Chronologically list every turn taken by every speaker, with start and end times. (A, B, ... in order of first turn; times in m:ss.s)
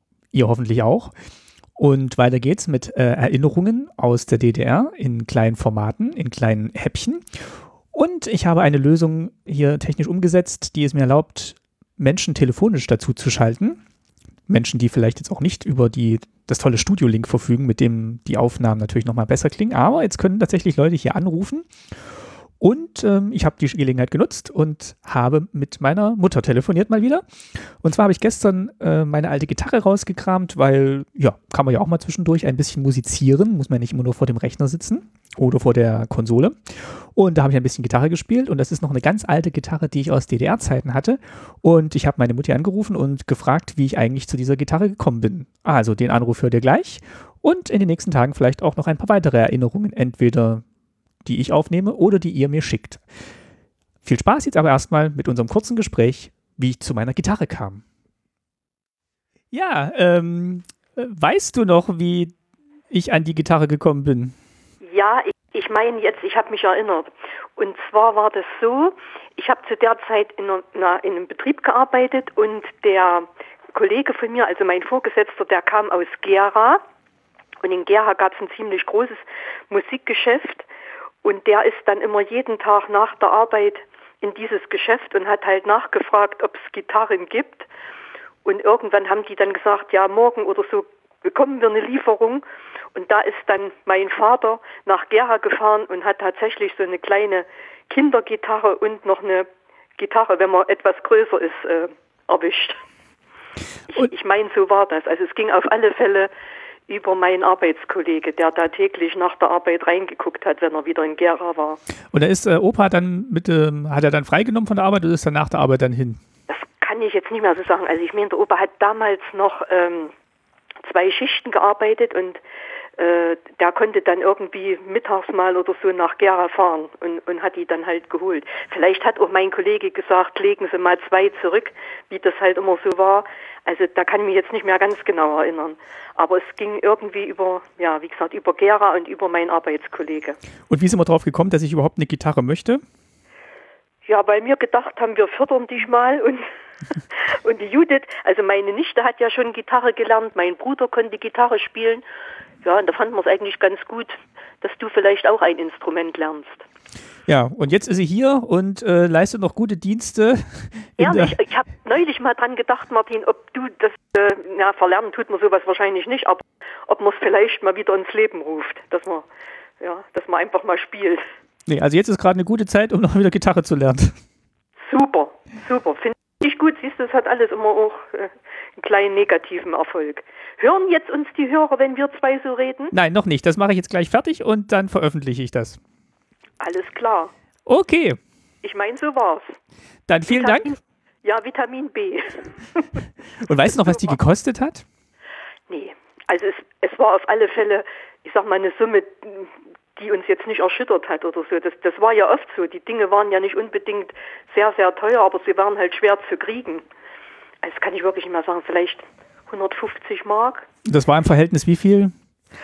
0:00.3-0:01.1 A
0:01.8-0:07.4 A
0:07.9-0:13.8 A
0:14.5-0:21.7 A
0:22.6-0:27.2 A
0:27.8-0:50.6 A
0:51.2-0:53.0 A
0:54.0-0:57.8 A
0:59.5-1:02.3 A
1:02.9-1:04.4 A
1:04.8-1:16.8 B
1:17.6-1:20.7 B
1:21.2-1:27.7 B
1:28.4-1:42.8 B
1:43.9-1:46.3 B
1:46.9-1:51.8 B
1:52.1-1:56.2 A
1:56.5-2:00.1 B
2:00.8-2:02.4 B
2:03.0-2:20.4 B
2:20.7-2:22.8 A
2:24.1-2:26.4 B
2:27.1-2:32.0 B
2:32.6-2:36.6 B
2:37.3-2:41.4 A
2:41.0-2:49.3 B
2:49.8-2:51.2 B
2:51.7-2:54.2 A
2:54.9-3:02.9 B
3:02.9-3:05.8 A
3:06.6-3:07.3 B
3:07.7-3:08.2 A
3:08.6-3:09.6 B
3:10.1-3:10.7 A
3:10.3-3:13.0 B
3:13.4-3:14.8 A
3:13.9-3:14.2 B
3:15.7-3:26.8 B
3:27.6-3:30.7 B
3:30.9-3:32.1 A